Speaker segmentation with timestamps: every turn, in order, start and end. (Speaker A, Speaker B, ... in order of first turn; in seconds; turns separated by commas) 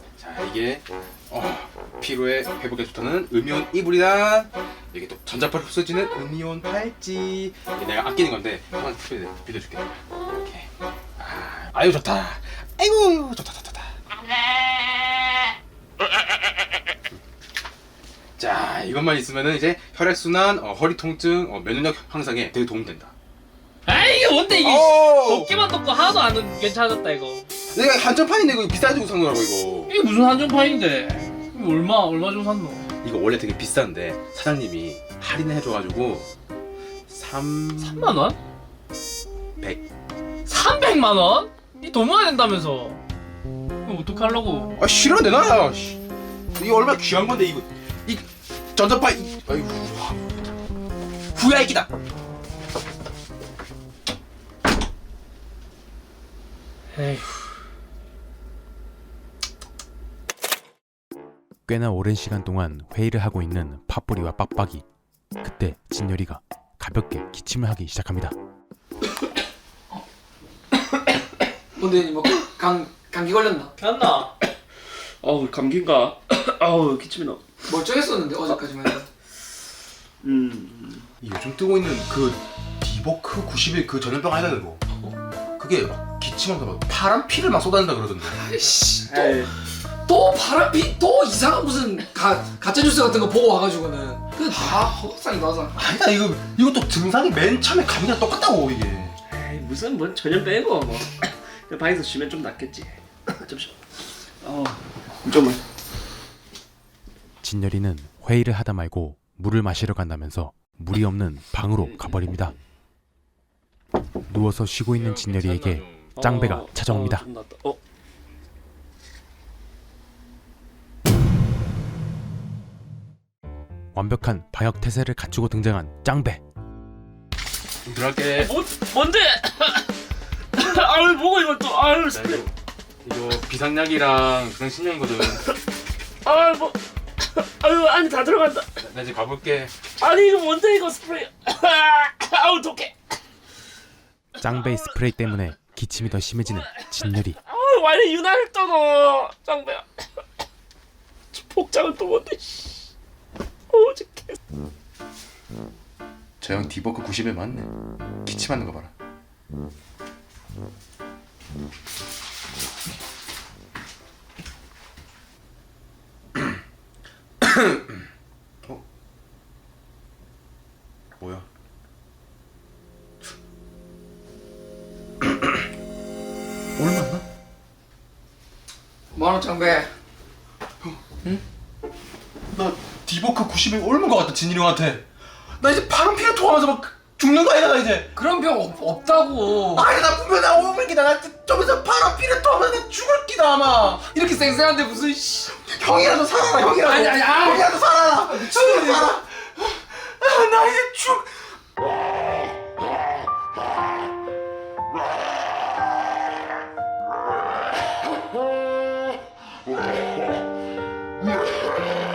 Speaker A: 0.2-13.9, Speaker A: 18.4-23.1, Speaker B: 23.9-27.4, Speaker A: 24.6-25.5, Speaker A: 27.7-29.9, Speaker B: 29.9-32.9, Speaker A: 33.0-36.3, Speaker A: 37.1-38.1, Speaker B: 37.8-38.4, Speaker A: 39.6-39.8, Speaker B: 40.5-43.0, Speaker B: 43.9-44.7, Speaker A: 44.8-46.0, Speaker A: 46.5-50.3, Speaker A: 51.3-51.9, Speaker B: 57.0-57.2, Speaker C: 61.7-64.8, Speaker C: 65.4-68.3, Speaker D: 71.8-73.7, Speaker B: 73.8-74.3, Speaker E: 75.2-77.4, Speaker D: 77.7-79.1, Speaker E: 80.2-81.1, Speaker A: 81.2-84.8, Speaker A: 85.6-88.4, Speaker D: 88.4-89.5, Speaker E: 89.1-89.5, Speaker D: 90.0-95.8, Speaker A: 94.5-94.8, Speaker A: 95.7-99.2, Speaker E: 99.3-103.7, Speaker E: 104.4-105.6, Speaker C: 107.4-112.5, Speaker C: 114.3-117.3, Speaker A: 114.9-116.2, Speaker E: 116.2-117.8, Speaker C: 123.9-126.4, Speaker A: 127.8-128.5, Speaker E: 128.3-129.9, Speaker E: 130.6-132.4, Speaker A: 132.1-132.5, Speaker A: 133.0-135.4, Speaker E: 136.2-136.8, Speaker E: 137.3-138.7, Speaker A: 138.8-139.7, Speaker E: 140.0-142.9, Speaker C: 144.4-147.4, Speaker E: 147.4-149.8, Speaker E: 151.3-152.9, Speaker E: 153.7-154.4, Speaker A: 156.4-157.7, Speaker A: 158.2-158.9, Speaker A: 167.4-168.0, Speaker A: 171.2-171.4, Speaker A: 176.8-177.2, Speaker D: 179.1-179.9, Speaker A: 182.5-185.0, Speaker A: 185.6-188.1, Speaker D: 188.2-189.9, Speaker A: 189.6-194.0, Speaker D: 194.0-195.5, Speaker A: 195.5-201.3, Speaker D: 196.7-199.1